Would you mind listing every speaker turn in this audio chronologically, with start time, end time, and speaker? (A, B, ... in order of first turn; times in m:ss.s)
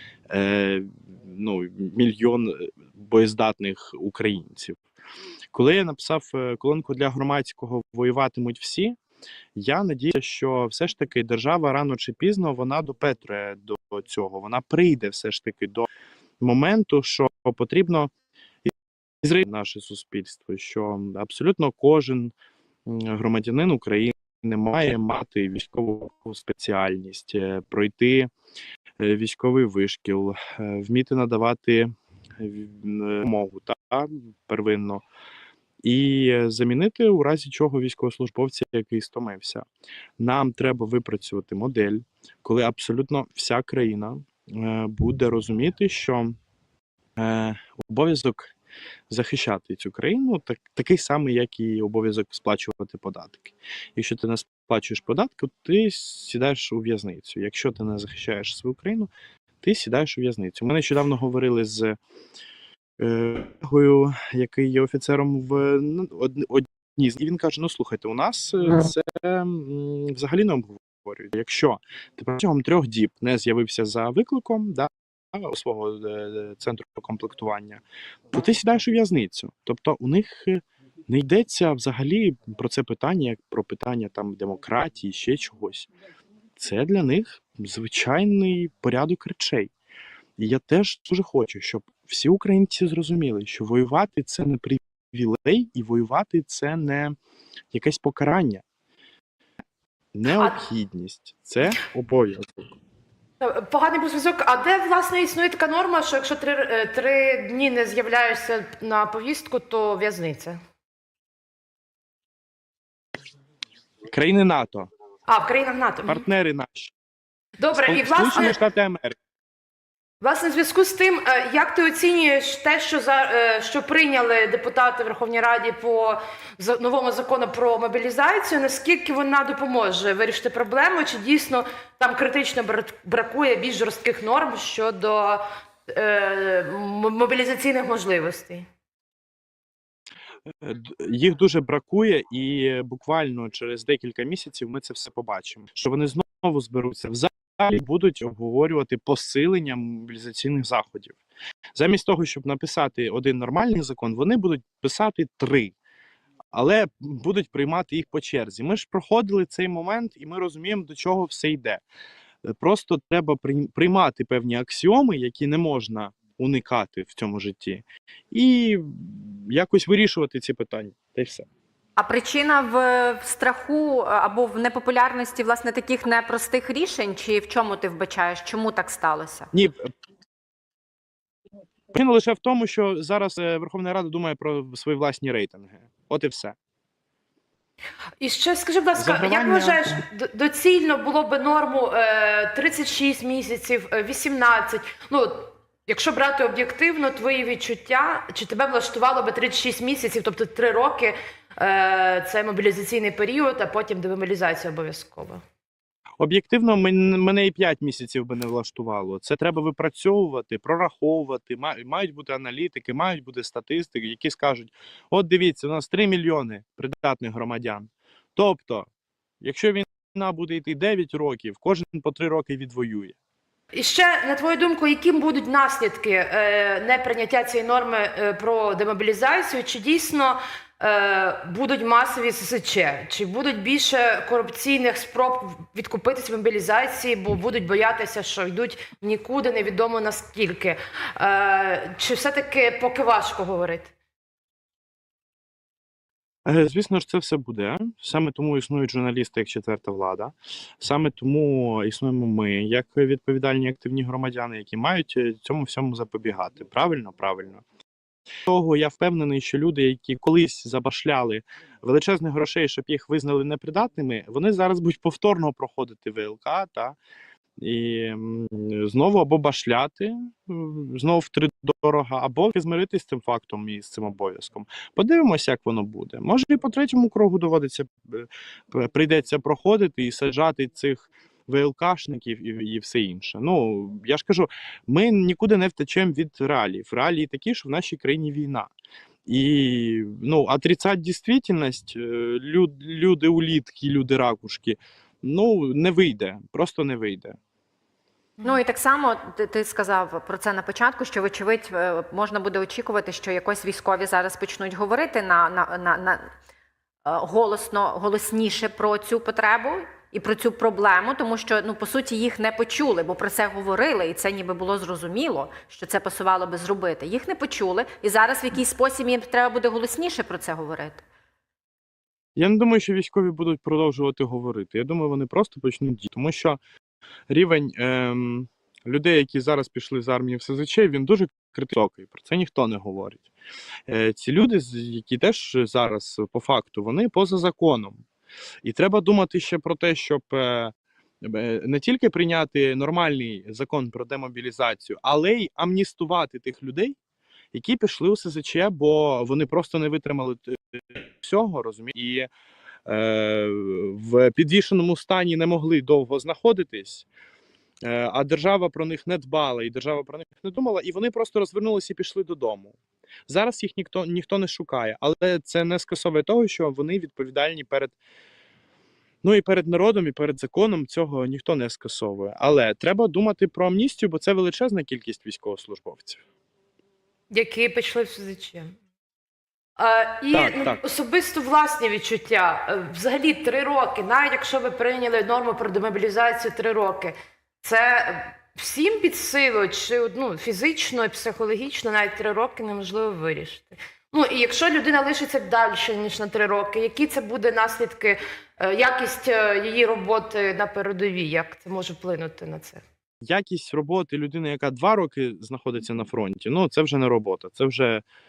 0:00.3-0:04.8 A
0:05.5-0:09.0 A
0:09.6-0:15.9 A
0:16.4-0:18.1 A
0:18.6-0:22.3 A
0:22.8-0:28.3 A
0:29.0-0:35.0 A
0:35.8-0:39.6 A
0:40.2-0:46.3 A
0:47.2-0:48.5 A
0:49.1-0:59.1 A
0:59.6-1:02.0 A
1:03.0-1:25.9 A
1:26.6-1:29.7 A
1:30.4-1:37.1 A
1:37.7-1:38.6 A
1:40.1-1:42.4 A
1:40.3-1:40.6 B
1:43.4-1:50.6 B
1:54.1-1:54.9 A
1:55.3-1:56.2 B
1:56.0-1:56.9 A
1:57.6-1:58.6 B
1:57.7-1:59.1 A
2:00.2-2:18.7 B
2:20.6-2:31.2 A
2:31.7-2:35.7 A
2:36.5-2:41.8 A
2:42.4-2:51.4 A
2:52.0-2:59.5 C
2:59.5-2:59.8 A
3:01.9-3:06.6 A
3:08.2-3:25.4 B
3:08.9-3:09.9 A
3:26.2-3:38.9 A
3:39.4-3:43.1 A
3:43.7-4:03.9 B
4:06.4-4:17.6 A
4:18.4-4:27.0 A
4:27.6-4:48.7 A
4:49.3-4:57.4 A
4:58.4-5:06.3 C
5:07.0-5:21.0 C
5:22.4-5:26.6 A
5:27.3-5:33.3 A
5:33.9-5:38.0 A
5:38.6-5:47.0 A
5:47.5-5:52.3 A
5:52.9-5:57.1 A
5:57.8-6:02.8 A
6:03.3-6:08.0 A
6:09.2-6:16.2 A
6:17.3-6:18.8 B
6:19.8-6:42.8 B
6:20.3-6:20.8 A
6:43.2-6:48.0 A